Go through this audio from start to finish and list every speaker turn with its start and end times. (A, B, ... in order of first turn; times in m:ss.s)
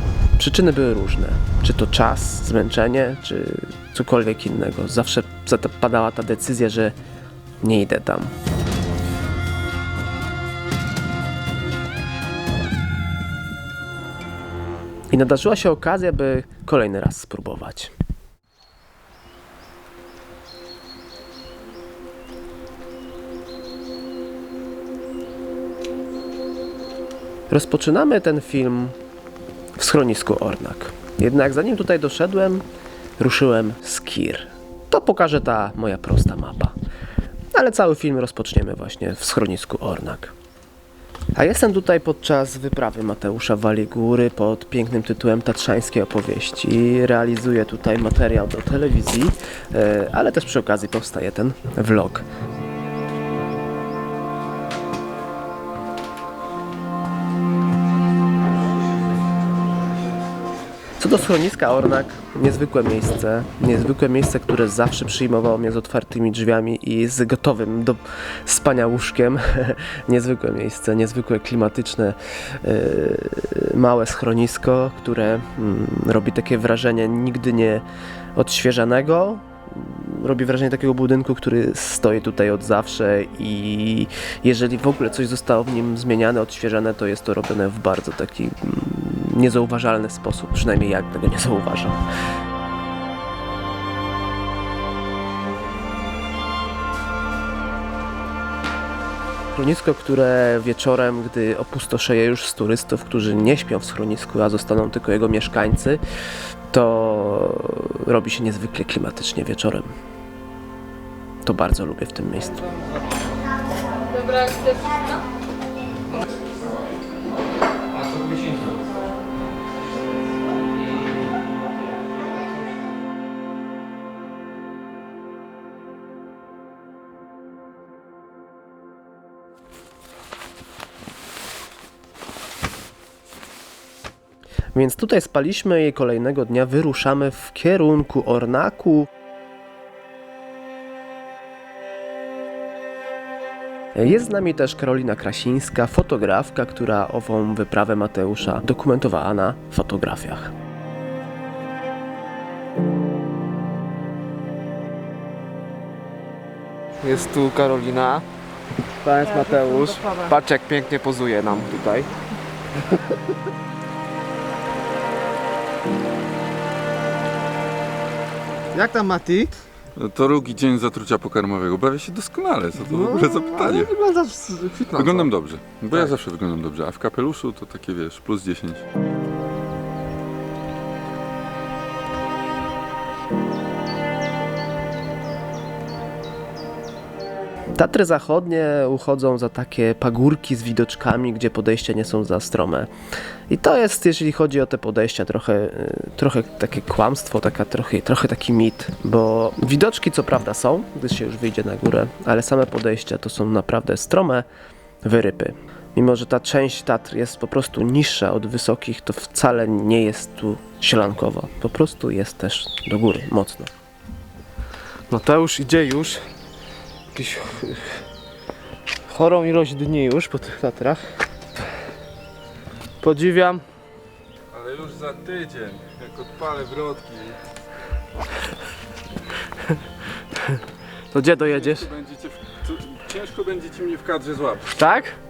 0:00.4-0:07.0 A
0:07.6-0:08.3 A
0:15.1-0:17.9 A
0:27.5-0:29.0 A
0:29.8-0:32.6 A
0:33.2-0:36.7 A
0:37.5-0:40.3 A
0:41.4-0:52.2 A
1:01.0-1:17.8 A
1:18.4-1:32.0 A
1:39.5-1:46.0 A
1:46.7-1:49.9 A
1:51.4-1:52.6 A
2:14.7-2:19.1 A
2:23.9-2:30.5 A
2:37.0-2:37.7 B
2:37.0-2:38.2 A
2:39.0-2:42.1 A
2:39.1-2:40.8 B
2:48.8-2:49.5 A
2:49.9-2:54.0 C
2:53.7-2:54.4 A
2:54.2-2:54.8 B
2:54.8-2:58.8 C
3:07.8-3:12.9 A
3:13.5-3:24.4 A
3:25.0-3:33.7 A
3:35.1-3:36.1 B
3:37.2-3:37.9 B
3:39.1-3:40.7 B
3:40.6-3:41.0 A
3:43.0-3:43.6 B
3:44.5-3:47.4 C
3:51.1-3:51.4 B
3:51.3-3:54.7 C
3:54.7-3:55.2 B